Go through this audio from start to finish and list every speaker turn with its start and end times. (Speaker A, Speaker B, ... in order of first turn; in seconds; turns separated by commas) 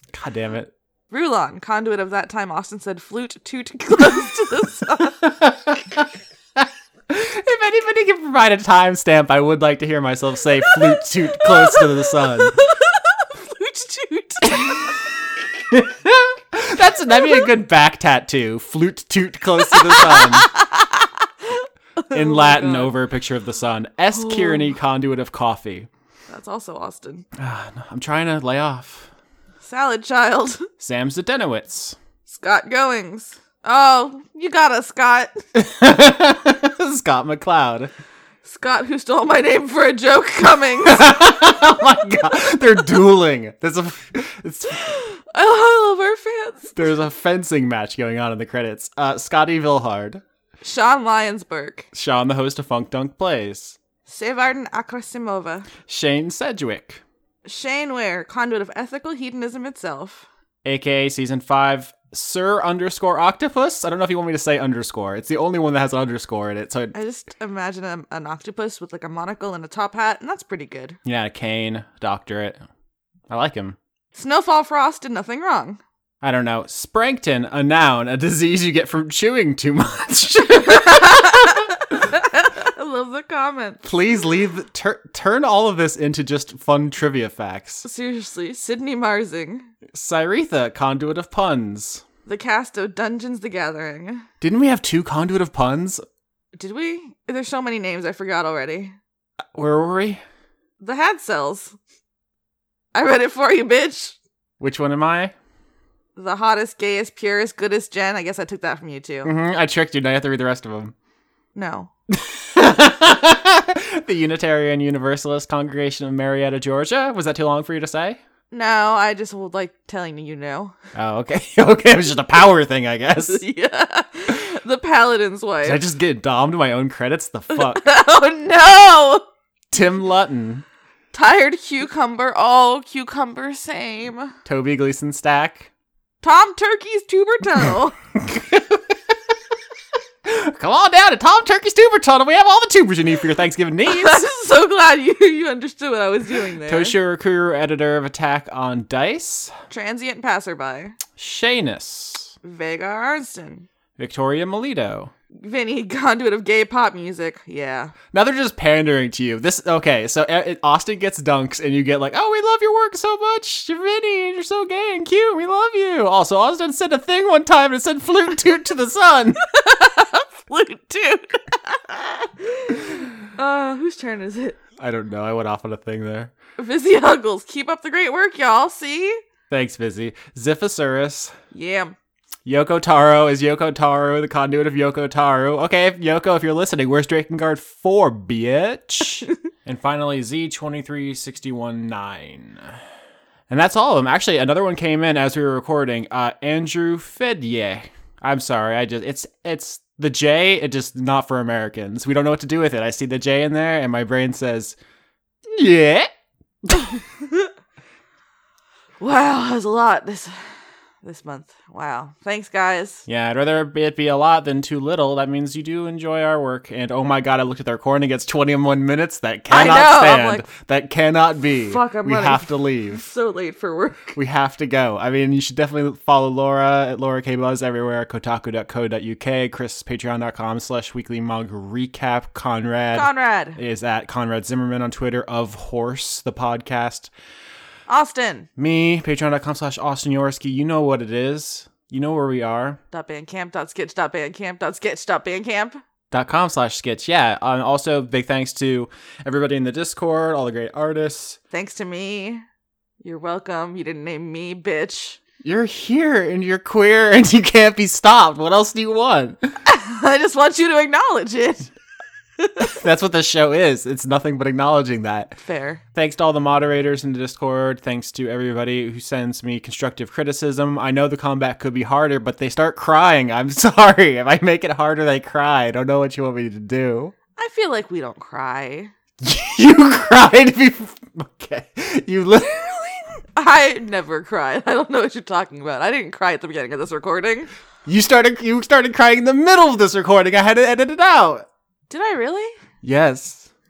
Speaker A: 0.1-0.7, Speaker B: 1.1-5.3, Speaker A: 5.2-6.0, Speaker A: 6.6-12.6, Speaker B: 11.4-14.9, Speaker A: 15.7-20.5, Speaker B: 19.7-22.9, Speaker A: 22.1-25.9, Speaker B: 24.1-24.7, Speaker B: 26.3-27.2, Speaker A: 27.4-29.1, Speaker B: 29.6-30.7, Speaker A: 30.8-31.9, Speaker B: 32.3-35.4, Speaker A: 35.5-37.9, Speaker B: 38.4-41.1, Speaker A: 40.8-45.0, Speaker B: 44.9-46.8, Speaker A: 46.7-50.2, Speaker B: 50.6-51.9, Speaker A: 51.9-53.8, Speaker B: 54.1-55.7, Speaker A: 55.9-57.0, Speaker B: 57.4-60.3, Speaker A: 60.6-66.9, Speaker B: 66.9-71.0, Speaker A: 71.0-72.6, Speaker A: 73.3-73.8, Speaker B: 74.1-75.8, Speaker A: 76.2-81.7, Speaker B: 80.7-83.8, Speaker A: 83.8-87.8, Speaker B: 87.8-89.7, Speaker A: 89.9-92.0, Speaker B: 92.2-94.3, Speaker A: 94.4-96.0, Speaker B: 96.5-98.9, Speaker A: 99.5-100.2, Speaker B: 100.8-101.7, Speaker B: 102.9-104.2, Speaker A: 104.6-105.3, Speaker B: 106.2-109.3, Speaker A: 109.2-110.9, Speaker B: 111.5-111.9, Speaker A: 112.1-118.2, Speaker B: 118.5-120.8, Speaker A: 120.9-123.4, Speaker B: 123.2-125.8, Speaker A: 125.6-127.8, Speaker B: 127.5-129.2, Speaker A: 129.7-130.6, Speaker B: 131.1-134.3, Speaker A: 134.4-135.7, Speaker B: 136.2-137.9, Speaker A: 138.2-138.8, Speaker A: 140.2-144.2, Speaker B: 143.8-146.9, Speaker A: 146.7-149.5, Speaker B: 149.7-151.0, Speaker A: 151.2-152.3, Speaker B: 152.4-153.7, Speaker A: 154.0-155.1, Speaker B: 155.4-157.9, Speaker A: 158.1-169.4, Speaker B: 169.5-174.6, Speaker A: 174.8-176.3, Speaker B: 176.6-179.2, Speaker A: 179.5-181.3, Speaker B: 181.5-181.9, Speaker A: 182.4-192.7, Speaker A: 193.5-204.8, Speaker A: 205.6-206.1, Speaker A: 206.6-207.0, Speaker B: 209.0-210.4, Speaker B: 211.0-213.1, Speaker A: 213.1-223.0, Speaker B: 219.5-220.5, Speaker B: 221.7-224.1, Speaker A: 224.1-237.1, Speaker B: 232.9-233.6, Speaker B: 237.9-238.5, Speaker A: 238.6-242.8, Speaker B: 242.9-245.8, Speaker A: 246.1-251.4, Speaker B: 251.5-252.4, Speaker B: 253.0-255.2, Speaker A: 255.4-259.4, Speaker B: 259.6-261.7, Speaker B: 262.4-262.7, Speaker A: 262.6-265.4, Speaker B: 265.4-265.8, Speaker A: 265.9-277.1, Speaker B: 277.4-278.9, Speaker A: 279.2-283.2, Speaker B: 283.4-287.5, Speaker A: 287.9-291.4, Speaker B: 291.9-292.6, Speaker A: 292.8-293.5